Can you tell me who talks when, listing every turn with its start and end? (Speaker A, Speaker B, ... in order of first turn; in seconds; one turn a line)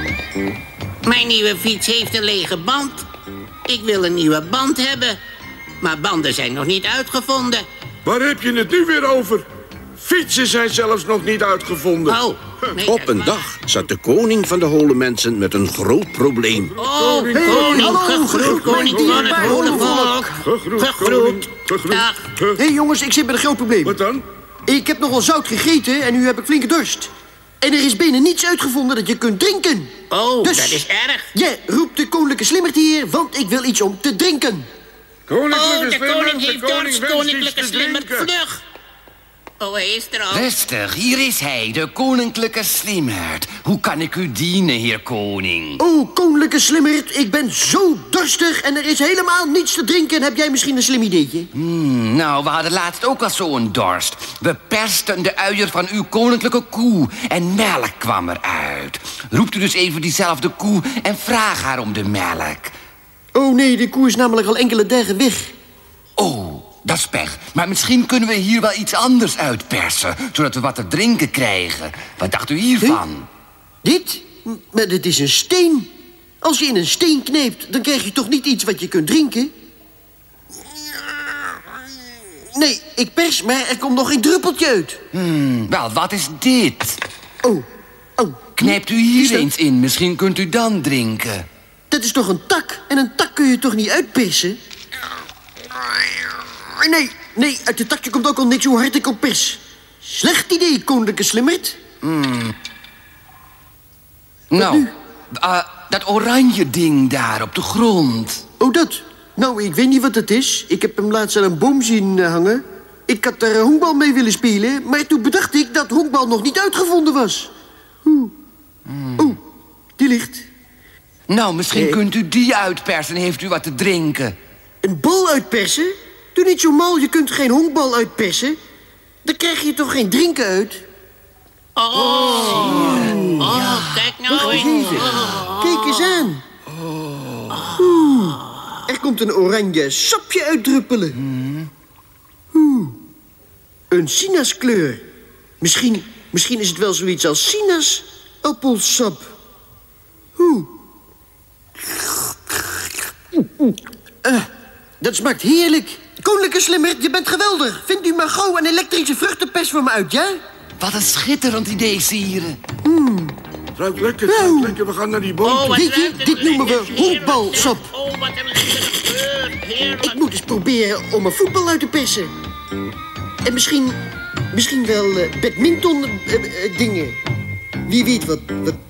Speaker A: 1.0-3.1
Speaker A: 3.7-5.2
Speaker A: 5.8-7.7
Speaker B: 8.1-12.2
Speaker A: 12.1-13.5
Speaker C: 12.8-16.8
Speaker A: 16.8-22.2
Speaker B: 16.8-22.6
Speaker D: 17.3-20.3
Speaker D: 22.5-24.0
Speaker B: 23.8-24.2
Speaker D: 24.7-27.1
Speaker D: 27.6-30.8
Speaker A: 30.1-31.3
Speaker D: 31.3-34.7
Speaker B: 35.3-38.3
Speaker A: 35.5-38.6
Speaker A: 39.6-40.5
Speaker E: 40.3-45.8
Speaker D: 45.8-51.5
Speaker E: 51.5-62.7
Speaker D: 63.3-65.5
Speaker E: 66.2-73.3
Speaker D: 73.8-75.9
Speaker D: 76.4-79.5
Speaker D: 82.5-85.0
Speaker E: 85.1-87.0
Speaker D: 88.2-89.5
Speaker E: 88.6-91.5
Speaker D: 91.9-94.6
Speaker D: 96.7-101.8
Speaker E: 102.0-102.5
Speaker E: 104.5-108.4
Speaker D: 104.6-104.9
Speaker D: 108.6-117.5
Speaker D: 118.0-118.3
Speaker E: 118.9-119.4
Speaker D: 120.0-120.5
Speaker E: 121.3-124.4
Speaker D: 121.7-122.0
Speaker D: 124.8-128.6
Speaker D: 129.2-130.8
Speaker A: 131.8-136.0
Speaker E: 132.4-133.9
Speaker D: 132.9-133.4
Speaker D: 134.3-136.4
Speaker E: 135.0-135.4
Speaker A: 137.5-137.9
Speaker D: 137.7-141.2
Speaker E: 141.2-141.7
Speaker D: 142.5-143.0
Speaker D: 143.9-145.0
Speaker D: 145.6-149.3
Speaker D: 150.4-150.7
Speaker D: 155.0-160.4
Speaker E: 160.8-162.6
Speaker D: 162.8-163.3
Speaker B: 163.8-165.8
Speaker D: 164.3-164.8
Speaker A: 165.4-170.2
Speaker D: 165.6-167.9
Speaker D: 170.0-172.3
Speaker D: 173.4-174.0
Speaker D: 174.5-177.2
Speaker D: 177.9-178.8